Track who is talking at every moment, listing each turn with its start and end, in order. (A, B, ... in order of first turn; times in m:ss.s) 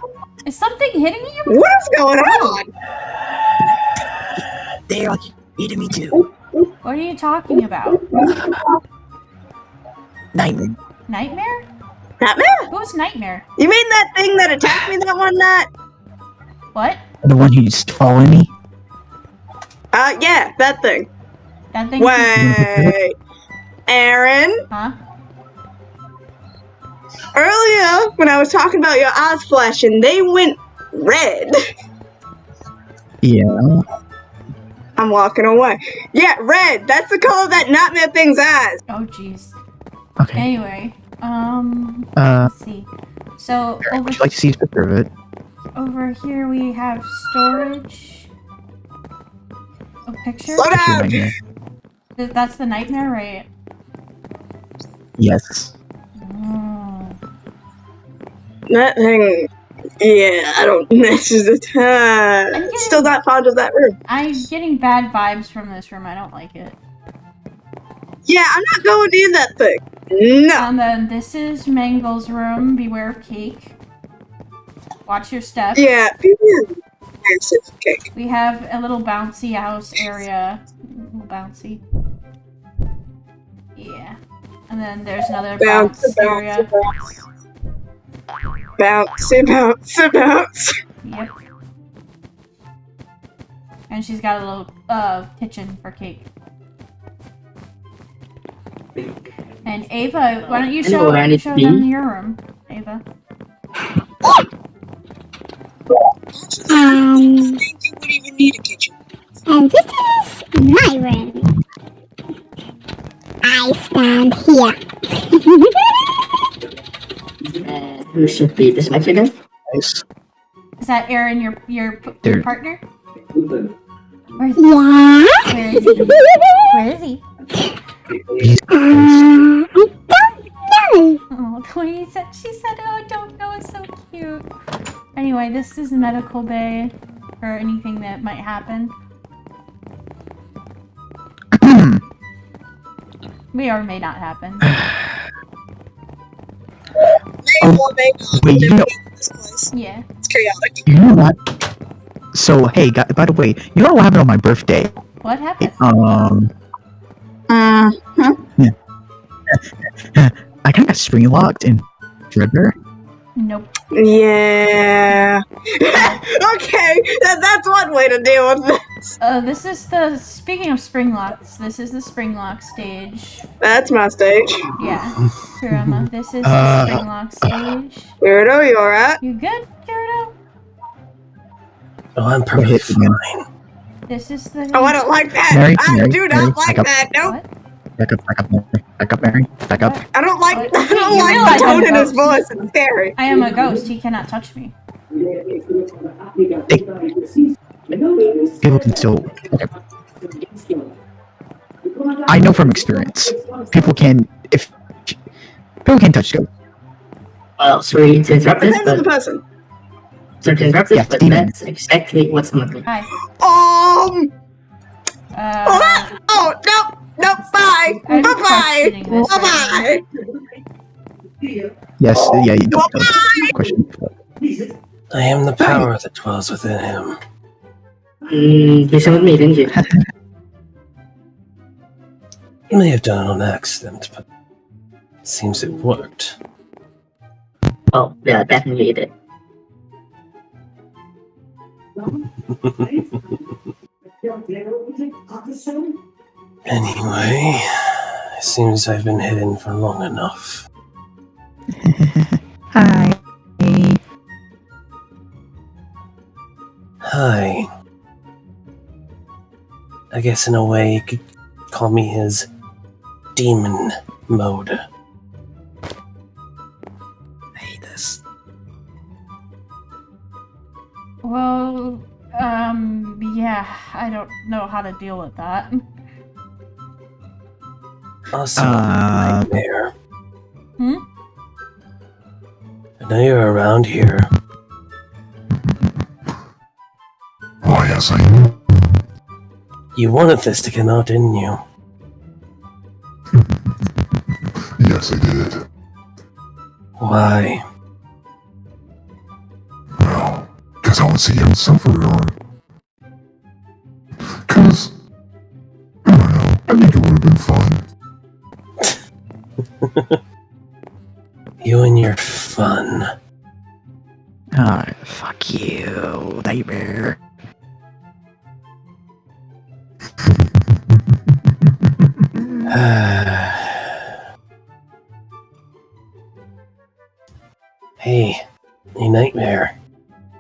0:00.4-0:01.6 A
0:01.5-0:02.7 B
0:04.9-0:06.2 C
0:06.1-0:06.7 B
0:06.8-0:08.1 A
0:08.2-0:08.6 B
0:10.3-0:10.8 C
0:11.1-0:11.6 A
0:12.2-0:12.7 B
0:12.7-0:13.4 A
0:13.6-0:15.7 B
0:16.7-0:17.0 A
0:17.2-0:18.5 C
0:19.9-0:21.1 B
0:21.7-0:22.4 A
0:22.0-0:23.1 B
0:22.4-0:22.9 C
0:23.9-0:24.6 B
0:24.7-0:25.0 A
0:27.4-0:31.6 B
0:33.2-0:33.8 C
0:35.0-0:38.8 B
0:38.9-0:39.6 A
0:40.2-0:40.5 C
0:40.4-0:44.3 A
0:42.2-0:42.5 C
0:43.8-0:45.1 C
0:45.8-0:48.3 A
0:50.1-0:50.7 A
0:50.6-0:51.3 B
0:50.7-0:51.3 C
0:52.2-0:53.5 A
0:55.2-0:55.7 C
0:56.2-0:57.2 A
0:58.7-0:59.5 B
1:00.0-1:04.0 B
1:02.5-1:03.1 A
1:04.1-1:06.8 A
1:08.2-1:10.7 B
1:10.6-1:13.7 A
1:15.1-1:15.9 A
1:15.7-1:16.7 B
1:17.2-1:18.0 B
1:18.1-1:21.8 A
1:23.8-1:24.2 A
1:24.7-1:26.7 A
1:25.6-1:27.0 B
1:28.8-1:30.8 B
1:31.0-1:31.3 A
1:33.9-1:36.2 A
1:39.6-1:43.0 A
1:40.4-1:41.9 D
1:46.3-1:49.0 B
1:46.7-1:47.6 E
1:49.5-1:51.5 E
1:53.4-1:54.8 E
1:55.3-1:55.6 E
1:57.6-1:59.3 D
1:59.7-2:00.0 C
2:00.8-2:02.8 A
2:04.4-2:04.7 A
2:04.6-2:05.4 E
2:05.4-2:07.2 A
2:08.4-2:09.3 C
2:11.3-2:14.4 A
2:15.2-2:18.9 A
2:21.5-2:22.0 C
2:23.5-2:24.7 A
2:24.6-2:25.2 C
2:27.4-2:29.7 B
2:27.6-2:28.9 C
2:29.7-2:30.0 A
2:30.2-2:30.8 B
2:30.9-2:31.4 C
2:32.3-2:35.0 C
2:35.2-2:35.8 A
2:35.6-2:36.5 C
2:37.5-2:38.4 B
2:39.5-2:42.7 C
2:43.4-2:43.7 A
2:43.9-2:48.8 B
2:45.9-2:46.2 A
2:49.2-2:53.4 A
2:53.6-2:54.7 B
2:54.8-2:58.1 A
2:55.7-2:57.6 C
2:58.2-2:59.2 B
2:59.2-3:00.3 A
3:02.2-3:03.4 F
3:02.5-3:03.2 C
3:04.1-3:05.0 A
3:04.7-3:07.4 B
3:05.5-3:06.9 C
3:08.0-3:10.0 C
3:09.8-3:12.4 A
3:10.1-3:13.2 B
3:13.2-3:14.7 A
3:18.6-3:19.7 C
3:22.2-3:25.2 C
3:25.8-3:26.5 C
3:27.6-3:29.0 D
3:28.6-3:29.4 B
3:30.4-3:32.8 D
3:30.9-3:31.5 C
3:32.9-3:33.1 A
3:33.4-3:34.3 B
3:35.3-3:36.1 A
3:35.6-3:40.0 B
3:38.0-3:39.9 A
3:42.0-3:44.2 C
3:42.7-3:43.5 B
3:45.1-3:47.2 F
3:45.6-3:45.9 C
3:48.3-3:49.8 D
3:52.7-3:54.2 F
3:55.2-3:56.4 F
3:57.9-3:59.1 D
4:02.5-4:03.4 F
4:06.6-4:10.6 F
4:11.7-4:14.0 C
4:17.0-4:17.7 F
4:20.1-4:21.2 F
4:21.7-4:22.4 F
4:23.4-4:24.8 F
4:27.6-4:28.2 C
4:31.2-4:35.8 A
4:38.3-4:39.9 F
4:38.6-4:39.6 C
4:40.8-4:41.0 A
4:43.0-4:44.3 F
4:47.6-4:48.9 G
4:50.0-4:51.6 F
4:54.8-4:55.6 G
4:57.0-4:57.6 F
5:00.0-5:02.3 G
5:04.2-5:04.9 G
5:06.1-5:07.8 G
5:06.7-5:06.9 C
5:09.8-5:10.2 F
5:11.6-5:13.1 F
5:14.5-5:17.2 C
5:22.4-5:22.7 C
5:22.7-5:24.0 F
5:28.0-5:28.4 F
5:29.0-5:29.7 F